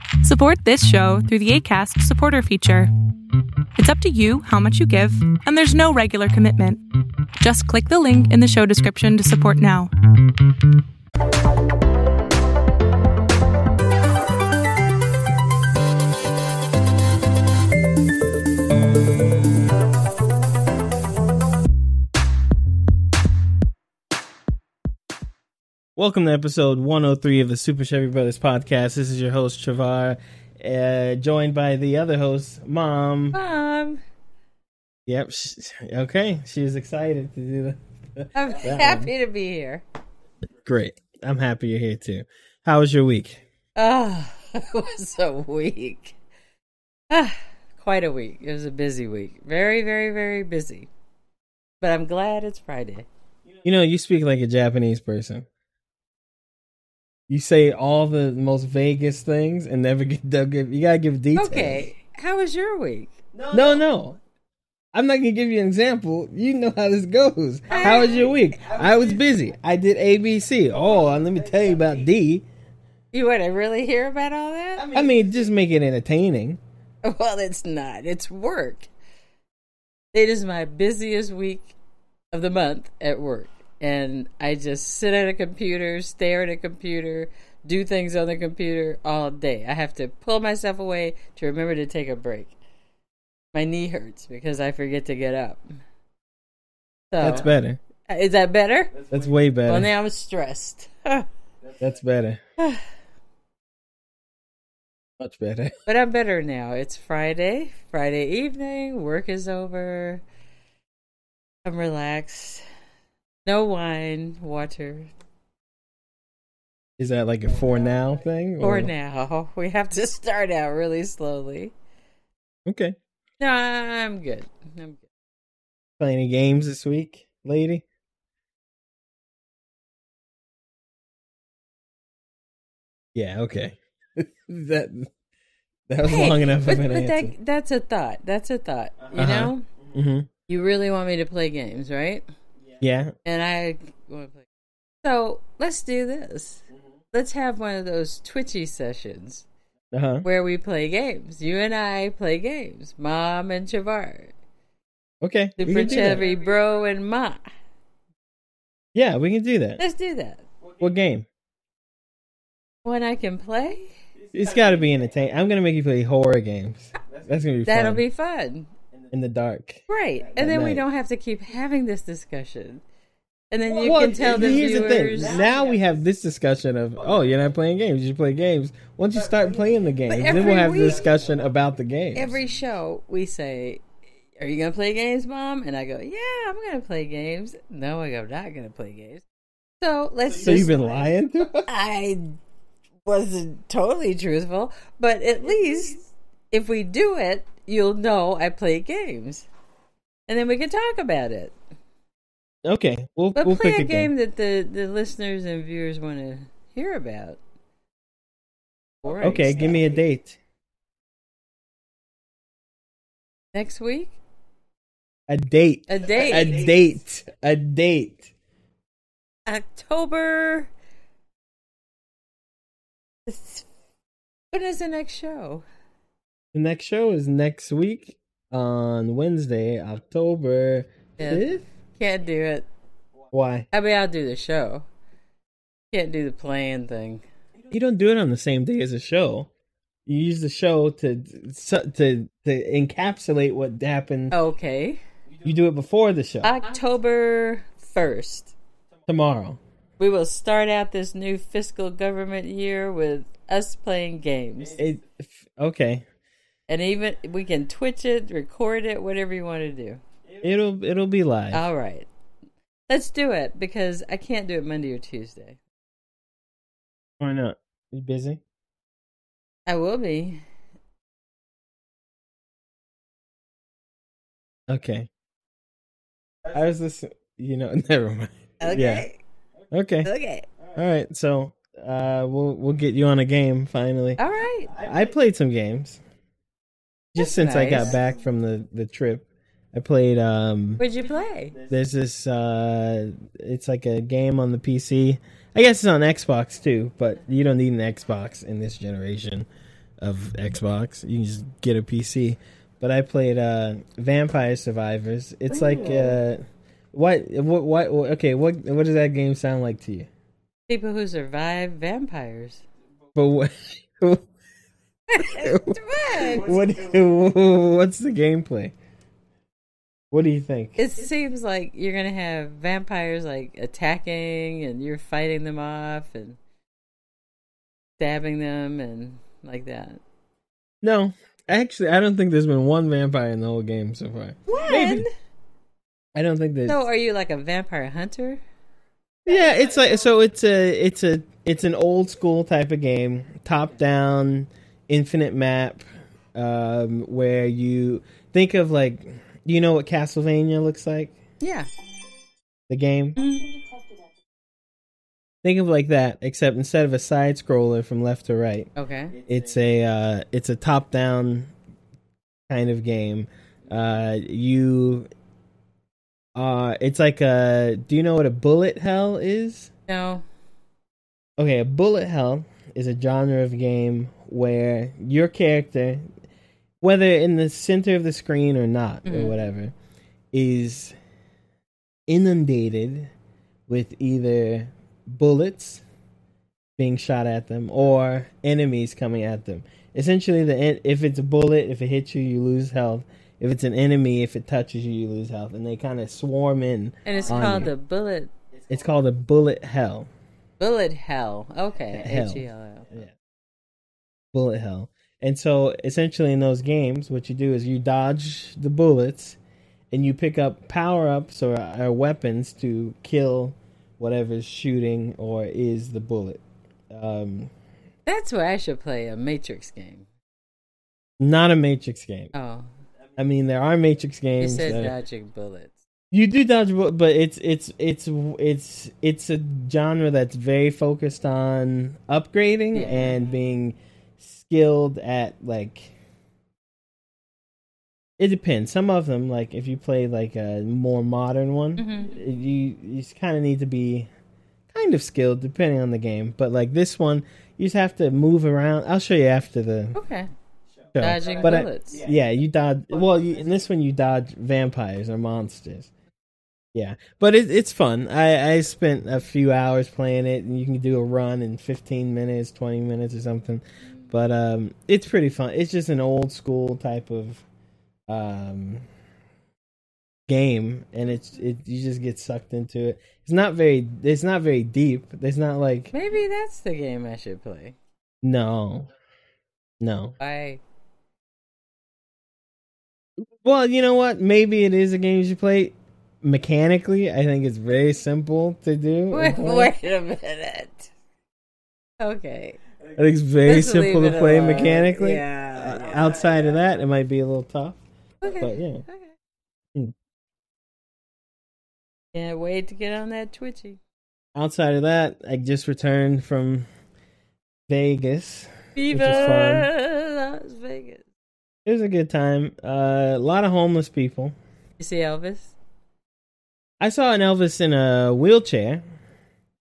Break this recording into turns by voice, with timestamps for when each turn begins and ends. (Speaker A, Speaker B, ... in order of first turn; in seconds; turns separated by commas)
Speaker A: 0.2-2.9, Speaker A: 3.8-6.8, Speaker A: 7.4-9.9, Speaker B: 26.0-33.4, Speaker C: 33.3-34.0, Speaker B: 35.1-39.1, Speaker C: 38.4-39.8, Speaker B: 40.6-43.4, Speaker C: 43.8-46.2, Speaker C: 47.1-50.9, Speaker C: 51.8-53.1, Speaker B: 53.6-55.5, Speaker B: 57.3-61.9, Speaker C: 61.4-63.2, Speaker B: 63.5-64.2, Speaker B: 64.9-72.5, Speaker C: 67.7-68.3, Speaker C: 73.1-75.0, Speaker B: 74.8-76.6, Speaker C: 77.0-78.9, Speaker C: 80.1-81.8, Speaker C: 82.3-92.5, Speaker C: 93.5-95.7, Speaker C: 97.1-97.5, Speaker B: 97.2-97.8, Speaker C: 98.1-99.0, Speaker B: 99.1-99.9, Speaker C: 99.7-101.3, Speaker B: 101.8-102.4, Speaker C: 102.6-102.8, Speaker B: 105.2-105.7, Speaker C: 105.9-110.2, Speaker C: 111.7-112.6, Speaker C: 113.5-115.1, Speaker B: 117.0-118.9, Speaker C: 118.6-121.7, Speaker B: 122.7-123.0, Speaker C: 123.4-125.0, Speaker B: 126.0-127.8, Speaker B: 133.2-135.1, Speaker B: 135.9-137.3, Speaker C: 136.0-139.7, Speaker B: 139.1-140.3, Speaker C: 140.5-142.3, Speaker B: 142.8-143.1, Speaker C: 143.2-144.5, Speaker C: 145.0-149.4, Speaker B: 149.9-150.3, Speaker C: 150.2-154.3, Speaker B: 155.2-156.3, Speaker C: 155.6-157.5, Speaker B: 158.9-159.8, Speaker C: 159.8-160.4, Speaker B: 160.8-161.3, Speaker C: 162.8-163.9, Speaker B: 164.3-168.0, Speaker C: 167.7-168.7, Speaker B: 169.1-170.8, Speaker C: 169.9-172.8, Speaker C: 173.5-175.4, Speaker B: 173.8-182.4, Speaker C: 180.1-181.1, Speaker C: 182.1-183.8, Speaker C: 184.4-189.2, Speaker C: 189.8-190.8, Speaker B: 190.4-191.7, Speaker C: 191.7-192.4, Speaker C: 193.1-196.0, Speaker C: 196.5-199.5, Speaker C: 200.3-201.6, Speaker B: 202.7-204.1, Speaker C: 203.4-207.4, Speaker C: 209.0-209.8, Speaker B: 209.2-210.4, Speaker C: 213.5-214.2, Speaker B: 215.3-218.3, Speaker C: 215.9-216.7, Speaker C: 219.5-220.7, Speaker C: 223.3-223.7, Speaker C: 224.5-225.7, Speaker B: 226.5-231.6, Speaker C: 231.2-232.7, Speaker B: 233.3-233.7, Speaker C: 233.7-234.9, Speaker C: 235.9-237.2, Speaker B: 237.7-239.5, Speaker B: 240.1-244.4, Speaker C: 244.3-245.0, Speaker B: 245.4-246.5, Speaker C: 246.4-248.5, Speaker B: 249.1-249.6, Speaker C: 250.0-254.8, Speaker B: 254.8-256.1, Speaker C: 256.7-260.0, Speaker B: 260.4-261.6, Speaker C: 261.5-262.1, Speaker C: 262.9-265.6, Speaker B: 267.2-268.4, Speaker C: 269.7-270.4, Speaker B: 274.7-275.1, Speaker B: 276.5-279.1, Speaker C: 278.6-279.2, Speaker B: 279.7-280.1, Speaker C: 280.0-280.5, Speaker B: 280.7-286.0, Speaker C: 284.2-284.8, Speaker B: 287.1-290.9, Speaker C: 287.2-288.0, Speaker C: 290.8-291.6, Speaker B: 291.7-299.5, Speaker B: 300.0-310.1, Speaker C: 305.5-306.1, Speaker C: 310.7-312.6, Speaker B: 313.1-314.2, Speaker C: 315.1-316.5, Speaker B: 315.2-318.7, Speaker B: 320.1-320.8, Speaker C: 320.8-326.4, Speaker C: 328.0-330.0, Speaker B: 330.8-335.1, Speaker C: 334.5-335.1, Speaker B: 336.1-336.8, Speaker C: 336.7-338.4, Speaker B: 339.2-351.2, Speaker C: 351.4-351.7, Speaker B: 352.7-353.2, Speaker C: 353.2-353.5, Speaker B: 355.4-358.7, Speaker C: 358.8-359.2, Speaker B: 359.2-361.5, Speaker B: 362.5-365.1, Speaker B: 366.4-369.7, Speaker C: 369.9-370.2, Speaker B: 371.4-376.1, Speaker B: 376.8-379.7, Speaker C: 379.1-379.4, Speaker B: 380.3-381.0, Speaker B: 382.1-383.1, Speaker B: 383.7-385.8, Speaker B: 386.8-397.7, Speaker C: 397.1-398.3, Speaker B: 398.7-400.1, Speaker C: 400.6-402.9, Speaker B: 401.9-403.1, Speaker B: 404.3-409.4, Speaker B: 409.9-417.5, Speaker C: 418.1-420.1, Speaker B: 421.2-422.3, Speaker C: 422.3-422.7, Speaker B: 423.2-424.9, Speaker C: 424.4-425.8, Speaker B: 426.1-435.9, Speaker C: 432.7-433.2, Speaker B: 438.2-444.1, Speaker C: 441.8-442.2, Speaker B: 444.7-450.0, Speaker C: 449.9-450.3, Speaker B: 450.9-455.9, Speaker C: 451.0-452.0, Speaker B: 456.8-467.4, Speaker B: 468.1-468.9, Speaker B: 470.3-475.9, Speaker C: 475.9-477.8, Speaker B: 478.2-478.9, Speaker B: 479.8-480.2, Speaker C: 480.2-480.6, Speaker B: 483.4-489.7, Speaker C: 489.1-490.9, Speaker C: 492.0-492.6, Speaker B: 492.9-498.9, Speaker C: 493.4-496.1, Speaker C: 498.2-499.1, Speaker C: 502.1-503.8, Speaker B: 504.4-506.7, Speaker B: 507.7-509.7, Speaker C: 508.8-511.0, Speaker B: 511.6-514.4, Speaker C: 514.8-515.5, Speaker B: 516.8-518.8